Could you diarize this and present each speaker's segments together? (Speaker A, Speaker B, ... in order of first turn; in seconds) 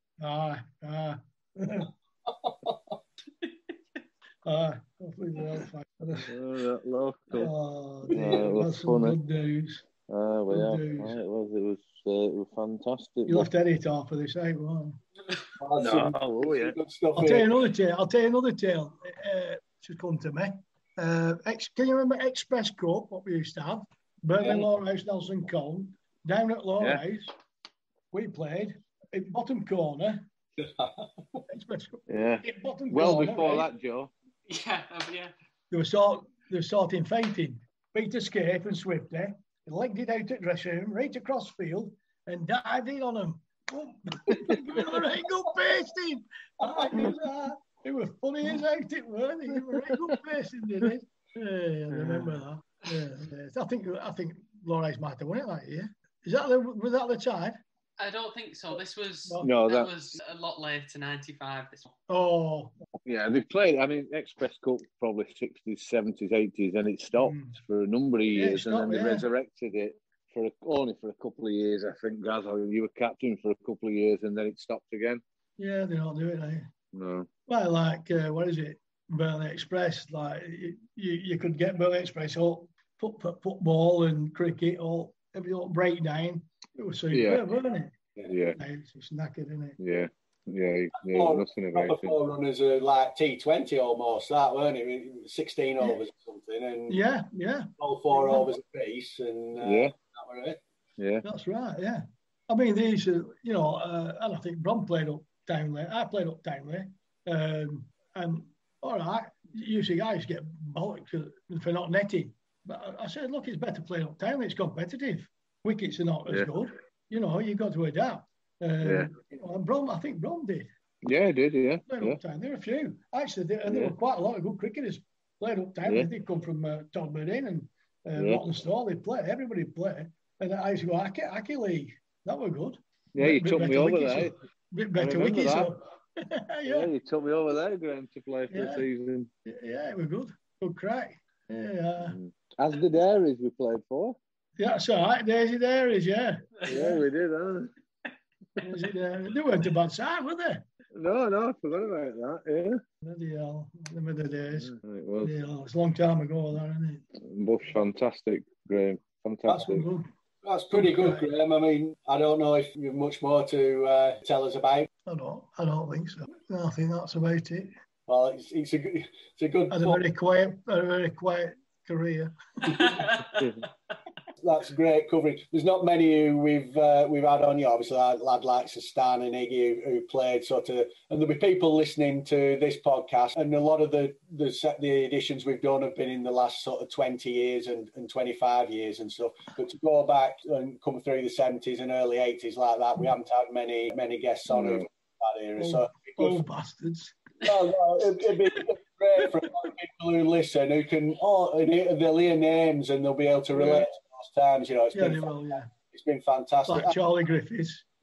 Speaker A: 0.2-1.9, 4.5-6.3, 7.4-9.9, 10.5-11.2, 13.3-15.0, 17.2-27.3, 28.1-30.3, 31.5-33.7, 35.7-57.6, 59.3-59.5, 62.1-62.7, 67.1-67.6, 68.3-69.2, 75.6-76.7, 77.5-88.0, 88.6-89.8, 96.9-98.5, 101.2-120.7, 121.9-136.9, 138.5-138.9, 139.4-142.2, 144.6-147.0, 148.6-150.6, 153.0-154.7, 155.2-157.0, 159.5-160.1, 160.7-161.3, 165.1-167.7, 169.7-172.8, 195.6-197.2, 203.6-203.8, 204.9-205.7, 206.7-207.8
Speaker B: 6.3-7.5, 8.1-9.2, 10.1-13.5, 15.8-16.8, 32.1-34.1, 51.9-52.4, 59.4-59.9, 63.0-75.2, 76.9-77.3, 87.1-87.5, 88.3-88.6, 89.8-92.2, 99.6-99.9, 101.0-101.2, 118.8-119.1, 121.0-122.2, 123.7-124.0, 128.2-128.4, 133.2-134.3, 134.9-135.7, 136.7-139.3, 142.1-144.2, 146.7-147.7, 150.9-152.8, 154.6-155.3, 157.2-159.9, 173.3-173.6, 194.5-194.9
Speaker C: 8.1-8.4, 15.6-17.5, 30.6-31.1, 46.6-47.2, 91.0-97.0, 97.8-100.6, 160.4-164.9, 168.1-170.0, 174.4-196.4, 197.5-205.3, 205.9-207.0
Speaker D: 34.5-35.3, 58.0-62.0, 172.7-173.4